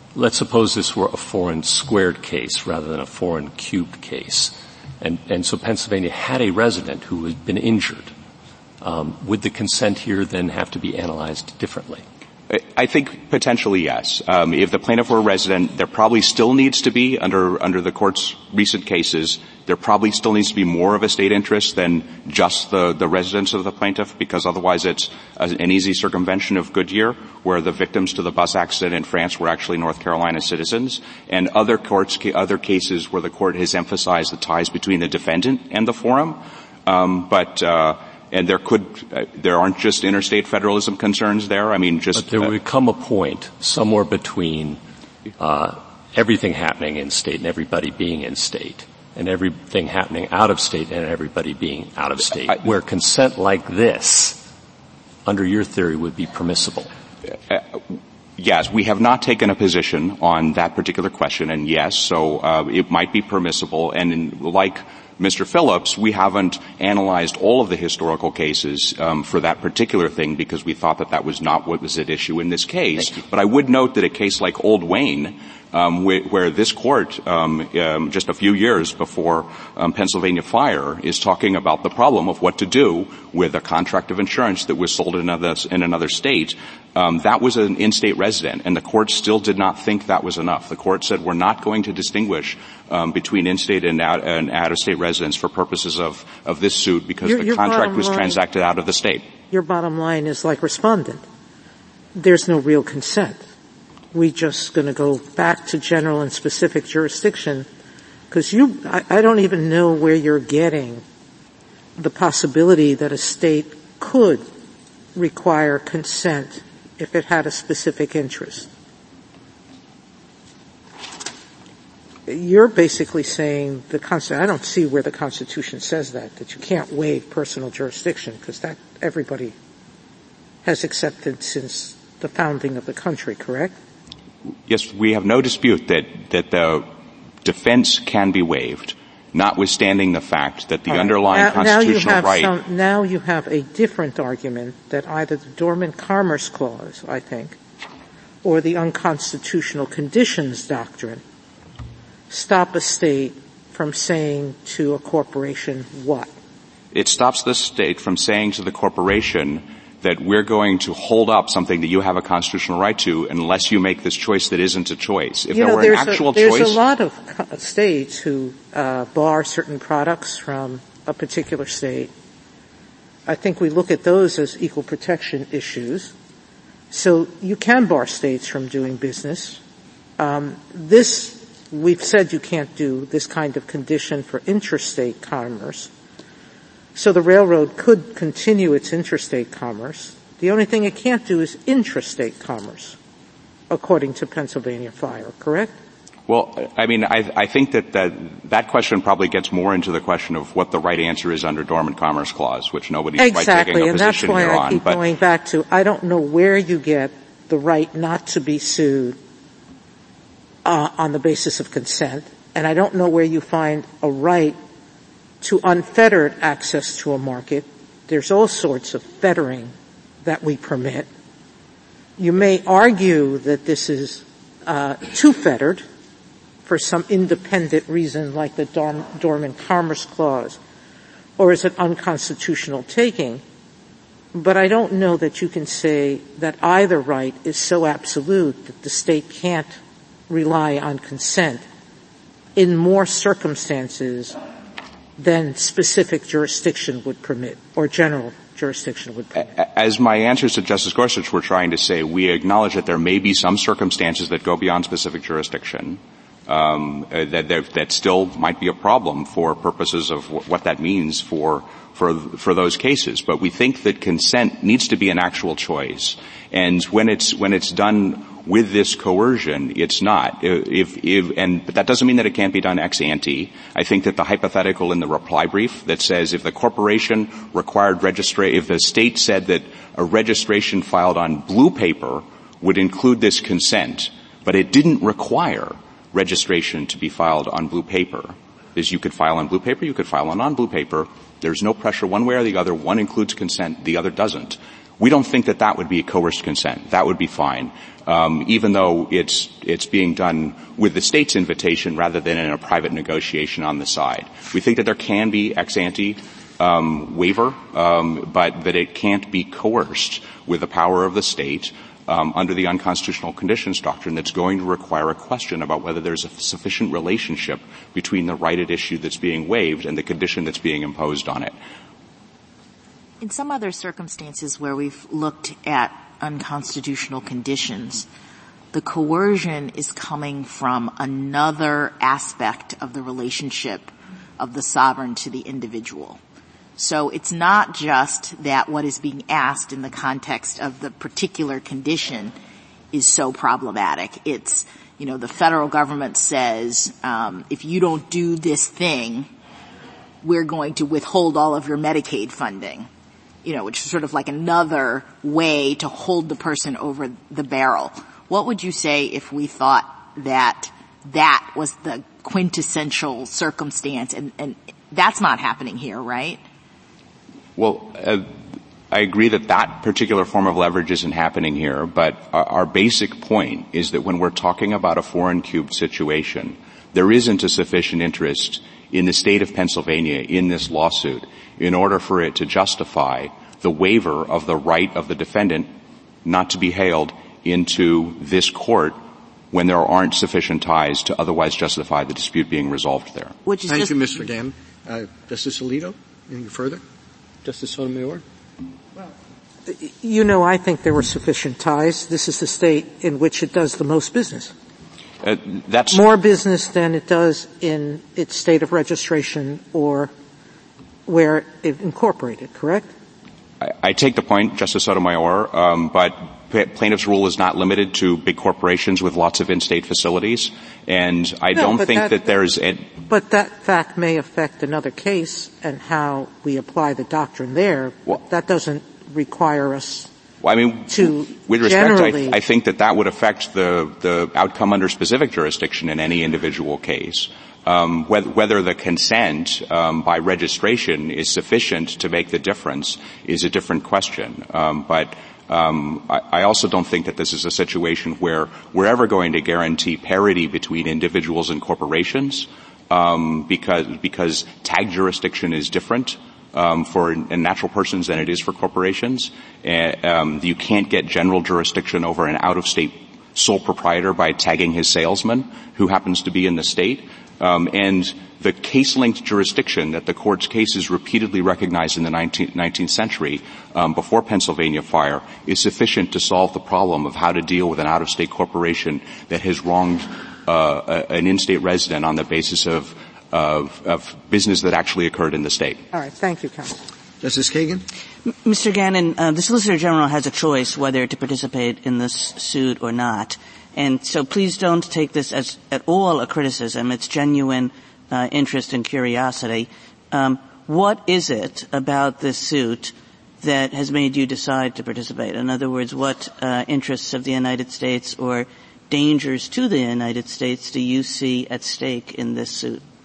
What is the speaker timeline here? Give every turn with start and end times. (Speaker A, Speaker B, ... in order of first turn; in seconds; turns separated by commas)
Speaker A: 0.1-8.1, Speaker A: 8.8-12.0, Speaker B: 12.5-42.5, Speaker A: 42.1-44.8, Speaker A: 45.4-54.4, Speaker A: 55.2-56.9, Speaker B: 58.4-99.3, Speaker C: 97.2-98.4, Speaker C: 99.5-101.2, Speaker C: 102.1-103.4, Speaker C: 104.1-107.7, Speaker C: 108.3-111.0, Speaker C: 112.0-114.4, Speaker C: 115.1-118.7, Speaker C: 122.3-129.5, Speaker C: 130.6-133.8, Speaker B: 134.7-136.9, Speaker B: 137.4-142.5, Speaker C: 140.9-147.6, Speaker C: 148.4-151.2, Speaker C: 152.3-156.3, Speaker B: 156.9-166.8, Speaker C: 165.5-172.1, Speaker C: 173.2-176.1, Speaker C: 176.9-179.6, Speaker C: 180.2-185.9, Speaker C: 186.9-193.0, Speaker C: 193.7-195.8, Speaker B: 196.3-205.0, Speaker C: 203.2-209.2, Speaker C: 210.6-214.6, Speaker C: 215.4-221.1, Speaker C: 222.2-225.8, Speaker C: 226.6-230.6, Speaker C: 231.4-233.4, Speaker C: 234.3-239.7, Speaker C: 240.3-241.6, Speaker C: 242.6-244.4, Speaker C: 245.2-249.5, Speaker B: 249.5-321.5, Speaker D: 323.2-328.1, Speaker D: 328.7-336.2, Speaker D: 336.8-342.3, Speaker D: 342.9-349.3, Speaker D: 350.2-352.9, Speaker D: 353.4-366.4, Speaker B: 367.6-368.3, Speaker B: 368.9-385.7, Speaker B: 386.2-389.0, Speaker B: 389.5-393.3, Speaker D: 393.4-393.9, Speaker E: 393.7-396.8, Speaker E: 397.4-398.2, Speaker C: 399.7-404.5, Speaker B: 405.2-406.1, Speaker C: 405.9-410.1, Speaker C: 411.1-412.9, Speaker B: 413.6-422.9, Speaker C: 421.6-422.2, Speaker C: 423.1-430.1, Speaker B: 430.4-485.8, Speaker C: 430.9-432.4, Speaker C: 485.9-486.8, Speaker E: 487.2-487.8, Speaker F: 488.4-512.8